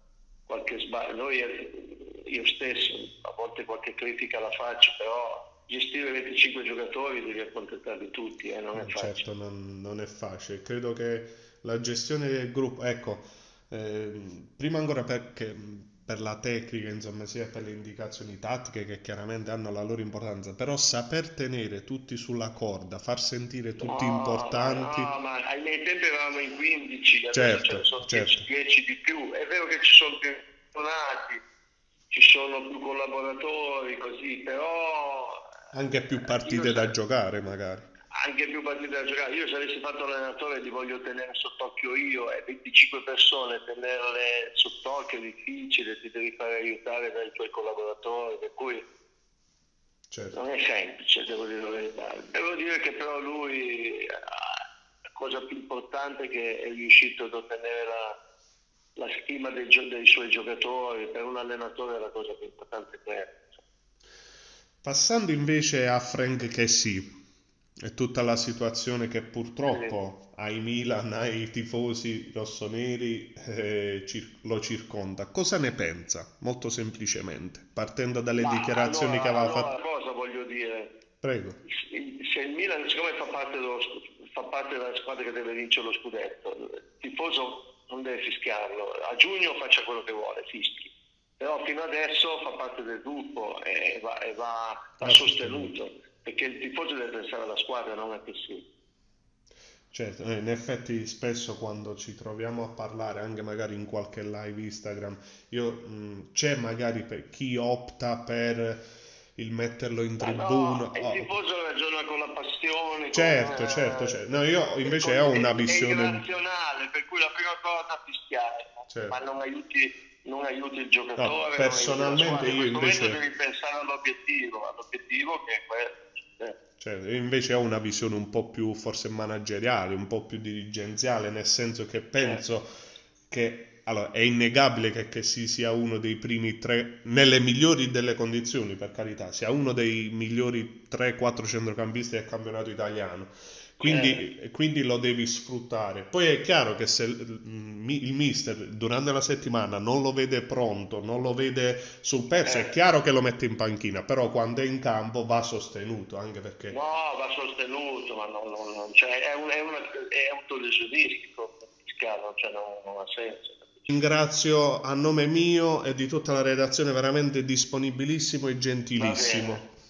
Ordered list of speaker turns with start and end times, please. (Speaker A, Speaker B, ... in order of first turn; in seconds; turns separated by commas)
Speaker A: 0.5-9.2, Speaker B: 8.7-25.1, Speaker A: 23.8-31.4, Speaker B: 27.3-28.4, Speaker A: 32.1-35.5, Speaker B: 35.7-37.9, Speaker A: 36.2-37.0, Speaker A: 38.1-48.9, Speaker B: 50.1-50.4, Speaker A: 50.3-54.6, Speaker A: 55.2-58.2, Speaker A: 59.0-63.6, Speaker B: 64.8-67.1, Speaker B: 67.8-79.7, Speaker A: 69.6-70.0, Speaker A: 78.4-81.0, Speaker B: 81.2-81.6, Speaker A: 81.7-98.7, Speaker B: 95.0-95.7, Speaker B: 99.9-108.8, Speaker B: 109.4-111.3, Speaker A: 110.2-114.2, Speaker B: 113.1-116.2, Speaker A: 114.8-126.6, Speaker B: 118.9-119.2, Speaker B: 121.2-123.2, Speaker B: 126.8-132.7, Speaker B: 133.3-156.8, Speaker A: 143.8-144.3, Speaker A: 152.4-152.7, Speaker A: 156.7-163.9, Speaker B: 163.9-169.7, Speaker A: 169.0-169.7